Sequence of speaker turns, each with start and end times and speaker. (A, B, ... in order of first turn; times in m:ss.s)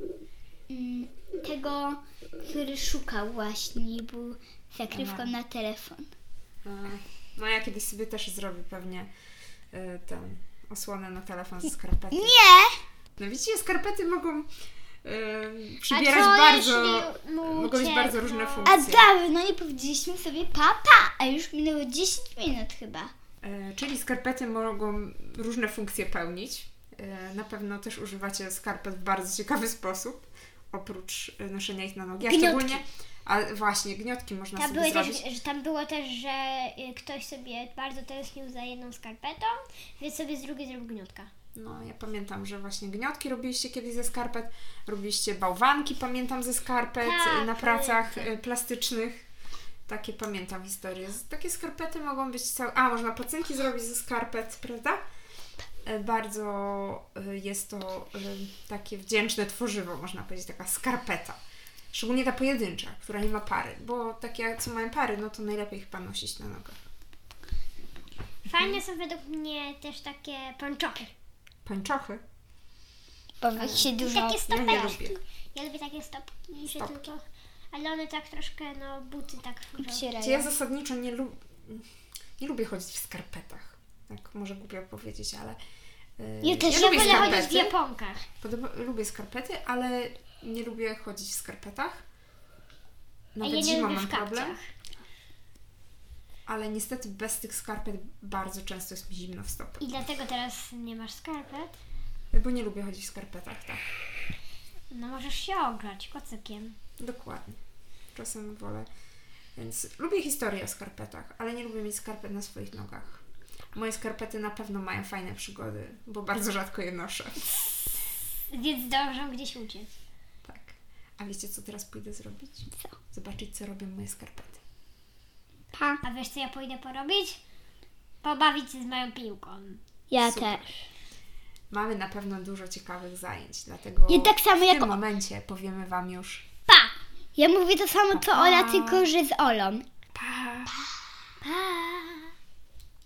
0:00.7-0:06.1 A
0:04.9-0:05.3 B
0:06.6-0:09.1 B
0:09.7-0:12.4 B
0:12.1-0:12.8 A
0:13.2-0:14.5 B
0:15.0-0:19.1 B
0:15.9-0:18.8 C
0:18.6-0:23.1 A
0:23.4-0:35.3 B
0:32.2-0:32.8 C
0:34.6-0:41.3 C
0:41.5-0:49.2 B
0:47.0-0:48.2 C
0:49.9-0:55.0 B
0:55.8-1:01.4 B
1:01.9-1:06.8 B
1:08.4-1:11.1 C
1:08.5-1:08.8 B
1:11.6-1:12.2 B
1:13.4-1:14.4 A
1:13.5-1:13.9 B
1:13.9-1:20.1 C
1:14.5-1:15.2 B
1:16.7-1:17.1 B
1:19.8-1:20.5 A
1:20.2-1:21.8 B
1:22.4-1:25.6 B
1:26.2-1:27.7 B
1:26.4-1:28.2 C
1:28.4-1:32.0 B
1:33.3-1:34.6 B
1:33.4-1:34.7 C
1:36.5-1:39.8 B
1:39.8-1:41.8 C
1:42.3-1:43.8 B
1:44.9-1:46.8 C
1:47.0-1:47.6 B
1:48.1-1:48.9 B
1:49.6-1:53.2 B
1:53.7-1:57.6 B
1:58.5-1:59.9 C
2:00.4-2:04.6 B
2:05.7-2:06.0 A
2:06.0-2:07.4 C
2:08.2-2:09.8 C
2:10.1-2:10.7 A
2:10.2-2:10.7 B
2:11.7-2:16.4 B
2:14.1-2:15.0 A
2:17.4-2:19.8 A
2:18.1-2:19.1 B
2:20.1-2:20.7 B
2:21.4-2:22.3 C